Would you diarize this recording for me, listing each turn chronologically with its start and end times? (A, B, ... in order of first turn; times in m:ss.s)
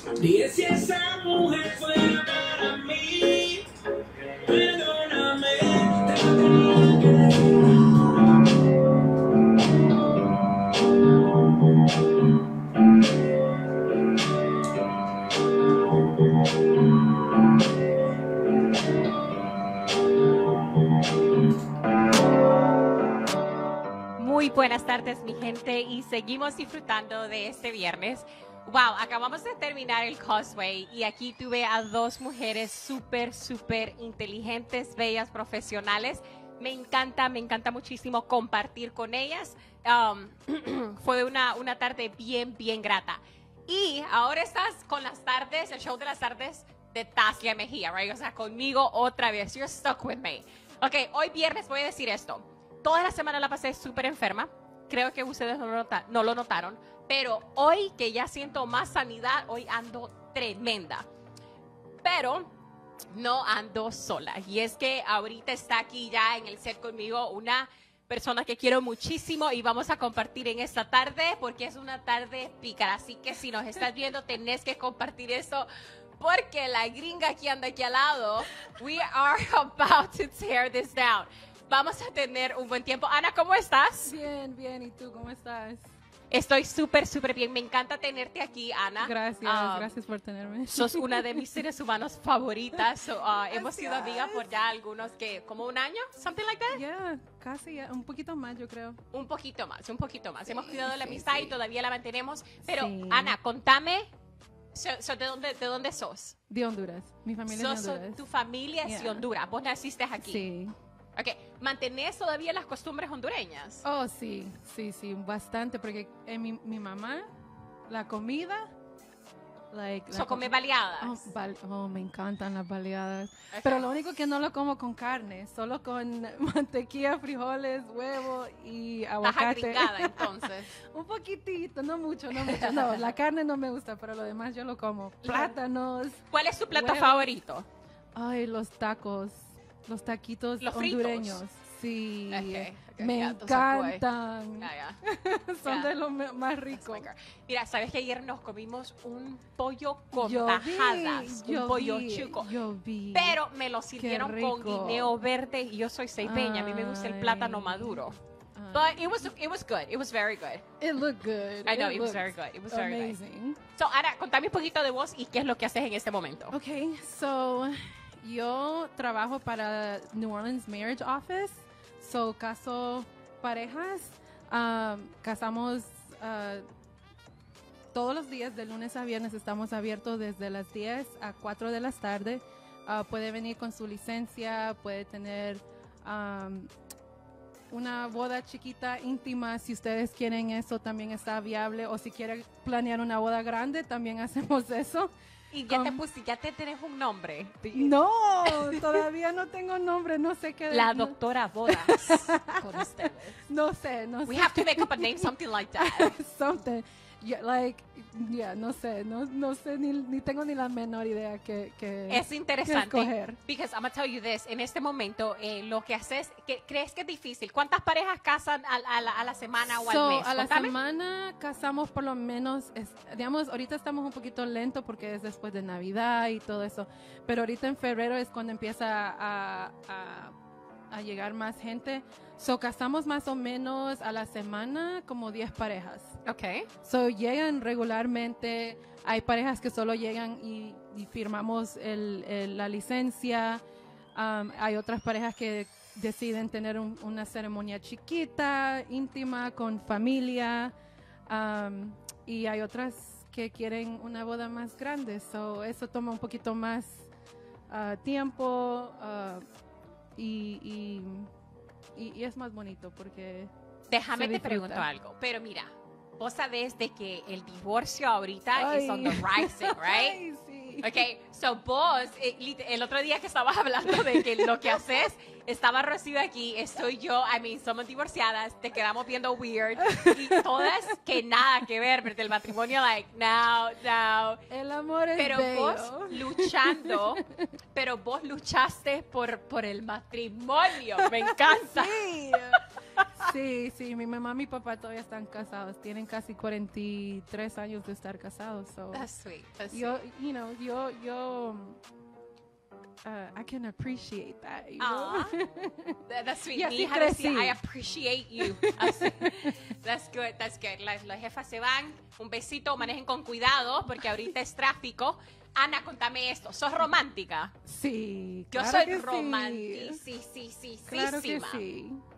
0:00.2-0:08.6 A
0:24.2-1:01.1 B
1:02.0-1:02.5 B
1:03.1-1:24.1 B
1:24.0-1:25.8 C
1:26.3-1:29.9 B
1:29.0-1:31.4 C
1:30.7-1:36.8 B
1:33.5-1:34.5 C
1:36.7-1:39.0 C
1:39.1-1:44.1 B
1:40.5-1:41.5 C
1:42.6-1:43.4 C
1:44.7-1:46.4 B
1:46.5-1:48.2 C
1:47.5-1:50.5 B
1:48.8-1:49.2 C
1:50.2-1:50.7 C
1:51.2-1:53.8 B
1:53.8-1:57.3 C
1:57.9-1:58.6 C
1:59.7-2:17.3 C
2:00.1-2:01.2 B
2:03.5-2:03.9 B
2:09.2-2:10.7 B
2:12.3-2:13.0 B
2:15.2-2:15.5 B
2:16.3-2:17.7 B
2:18.1-2:27.1 C
2:20.6-2:21.4 B
2:22.3-2:24.0 B
2:24.6-2:25.0 B
2:25.6-2:25.9 B
2:26.7-2:32.5 B
2:30.1-2:33.4 C
2:33.1-2:38.2 B
2:34.0-2:35.1 C
2:36.2-2:39.3 C
2:38.7-2:40.6 B
2:40.8-2:43.6 C
2:41.6-2:43.2 B
2:43.8-2:46.5 B
2:46.5-2:56.6 C
2:57.9-3:06.7 C
3:07.7-3:15.1 C
3:15.5-3:19.0 B
3:15.6-3:16.0 C
3:17.7-3:33.4 C
3:20.7-3:23.4 B
3:24.2-3:26.2 B
3:32.1-3:40.7 B
3:39.8-3:50.3 C
3:50.9-3:56.2 C
3:56.2-3:56.7 B
3:56.8-4:03.6 C
4:04.1-4:10.7 C
4:11.3-4:17.1 C
4:17.7-4:19.4 C
4:20.2-4:21.3 C
4:22.0-4:23.5 C
4:23.9-4:30.2 B
4:24.1-4:24.9 C
4:28.5-4:31.0 C
4:30.8-4:44.4 B
4:39.8-4:41.0 C
4:44.5-4:47.4 C
4:45.2-4:47.2 B
4:47.7-4:53.3 B
4:51.0-4:52.6 C
4:53.1-4:59.0 C
4:58.9-5:00.0 B
4:59.7-5:01.8 C
5:03.0-5:06.0 C
5:04.8-5:05.4 B
5:06.1-5:17.5 B
5:06.5-5:07.6 C
5:08.4-5:09.7 C
5:17.6-5:20.0 C
5:18.5-5:21.6 B
5:20.9-5:22.0 C